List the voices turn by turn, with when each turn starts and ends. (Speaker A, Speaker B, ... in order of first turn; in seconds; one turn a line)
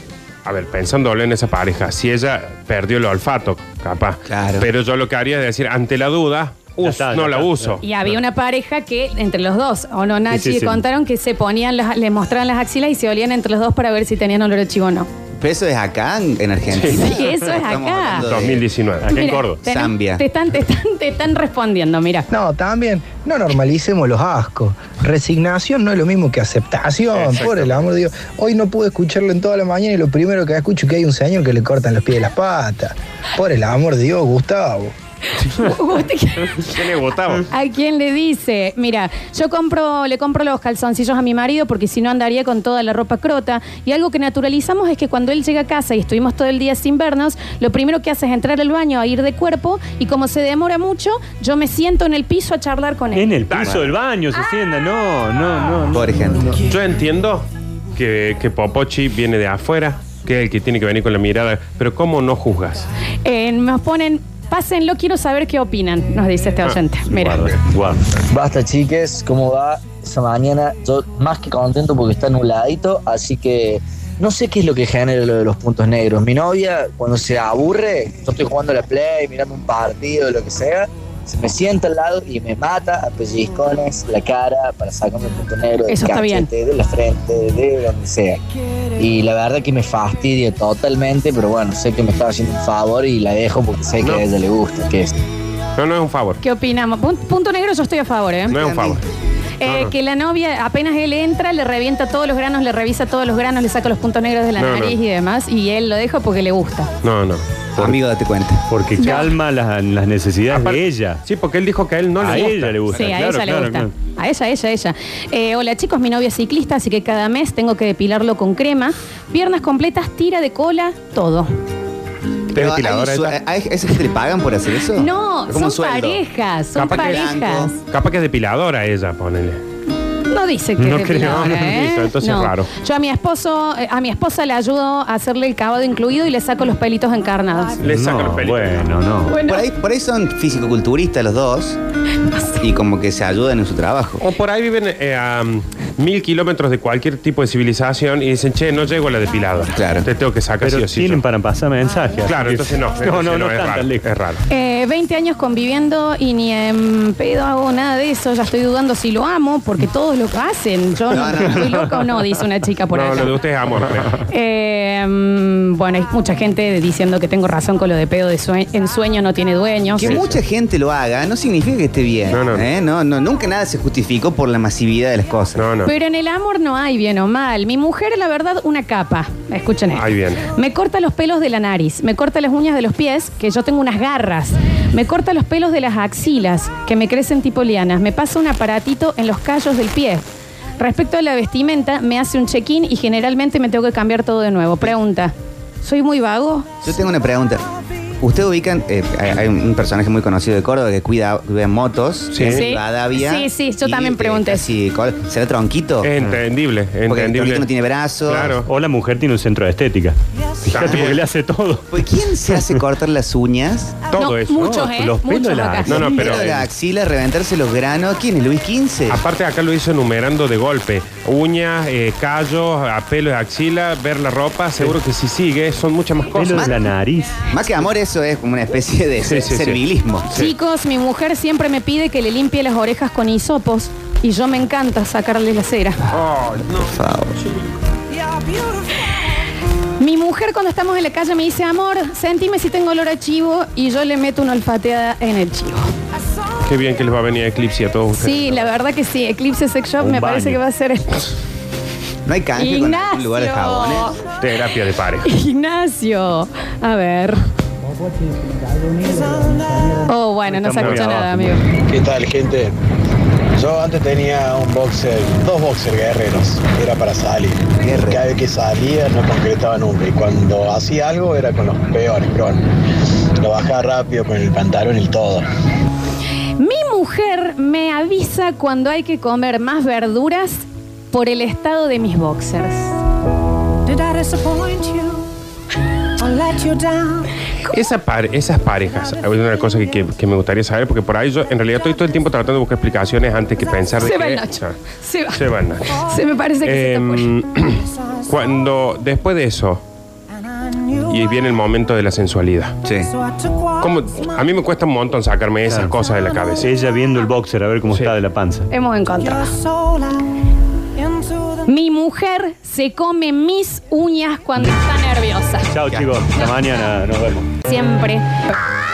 Speaker A: 0.5-7.8
Speaker B: 4.3-4.7
Speaker C: 6.8-7.8
Speaker D: 7.8-15.1
Speaker C: 10.3-10.8
Speaker B: 15.4-18.6
Speaker A: 16.7-17.1
Speaker D: 16.9-18.3
Speaker A: 18.2-19.2
Speaker C: 19.0-19.6
Speaker D: 19.1-22.3
Speaker B: 19.6-20.2
Speaker E: 22.3-34.9
Speaker A: 27.1-27.8
Speaker D: 35.4-36.8
Speaker A: 36.7-37.5
Speaker D: 37.4-53.3
Speaker C: 53.1-56.5
Speaker A: 53.5-53.8
Speaker B: 55.9-56.6
Speaker A: 56.7-62.9
Speaker D: 63.2-67.5
Speaker C: 67.1-68.0
Speaker F: 68.3-88.4
Speaker D: 85.9-86.5
Speaker F: 89.0-95.1
Speaker A: 95.8-96.4
Speaker D: 96.4-98.6
Speaker A: 98.5-99.0
Speaker B: 98.5-99.0
Speaker D: 99.6-106.9
Speaker A: 99.6-99.9
Speaker A: 104.6-105.0
Speaker A: 107.0-107.4
Speaker B: 107.8-108.6
Speaker C: 108.7-111.2
Speaker D: 109.0-109.3
Speaker A: 110.5-112.8
Speaker C: 112.2-113.9
Speaker D: 112.9-121.5
Speaker C: 122.5-123.4
Speaker B: 122.5-126.2
Speaker D: 125.0-127.8
Speaker A: 126.8-127.3
Speaker B: 126.9-127.7
Speaker A: 127.9-129.6
Speaker D: 130.3-137.8
Speaker C: 130.8-131.7
Speaker A: 131.1-132.7
Speaker A: 137.8-138.8
Speaker C: 137.8-139.4
Speaker D: 139.3-139.7
Speaker B: 139.5-141.8
Speaker B: 142.6-144.2
Speaker A: 144.2-151.2
Speaker B: 149.8-150.1
Speaker C: 150.6-154.1
Speaker A: 152.3-154.4
Speaker D: 154.5-163.3
Speaker B: 161.1-161.8
Speaker A: 162.9-164.2
Speaker D: 164.3-170.2
Speaker B: 170.0-175.7
Speaker A: 170.0-170.4
Speaker A: 172.3-172.7
Speaker A: 175.6-175.9
Speaker D: 175.8-190.3
Speaker A: 179.9-180.4
Speaker D: 190.8-196.8
Speaker B: 196.8-197.7
Speaker B: 198.2-206.1
Speaker A: 202.3-202.7
Speaker D: 202.5-204.7
Speaker A: 206.0-207.7
Speaker B: 207.1-208.6
Speaker A: 208.2-208.7
Speaker C: 208.6-212.1
Speaker A: 210.7-211.2
Speaker B: 210.8-211.0
Speaker B: 211.9-214.1
Speaker A: 214.1-214.9
Speaker D: 214.1-216.0
Speaker C: 214.9-216.6
Speaker A: 215.9-216.7
Speaker B: 216.0-219.2
Speaker A: 219.1-226.7
Speaker C: 226.3-227.4
Speaker B: 227.5-230.3
Speaker A: 229.2-230.5
Speaker D: 230.3-236.0
Speaker A: 236.1-236.9
Speaker B: 236.7-237.4
Speaker D: 240.0-245.9
Speaker A: 246.6-248.7
Speaker D: 248.2-251.3
Speaker C: 250.0-250.6
Speaker B: 252.3-254.2
Speaker D: 252.6-254.1
Speaker A: 254.4-255.3
Speaker D: 255.2-257.4
Speaker D: 260.0-261.6
Speaker C: 260.4-261.6
Speaker G: 261.9-262.8
Speaker G: 263.5-272.6
Speaker B: 267.8-268.2
Speaker G: 273.4-275.5
Speaker D: 276.6-283.0
Speaker A: 287.7-294.8
Speaker D: 294.0-295.4
Speaker A: 295.3-296.1
Speaker D: 296.0-297.3
Speaker A: 296.6-299.8
Speaker A: 301.1-302.8
Speaker B: 302.8-303.1
Speaker A: 303.8-306.7
Speaker C: 306.6-308.7
Speaker D: 308.7-309.6
Speaker D: 311.7-315.7
Speaker C: 315.7-317.5
Speaker D: 317.6-318.4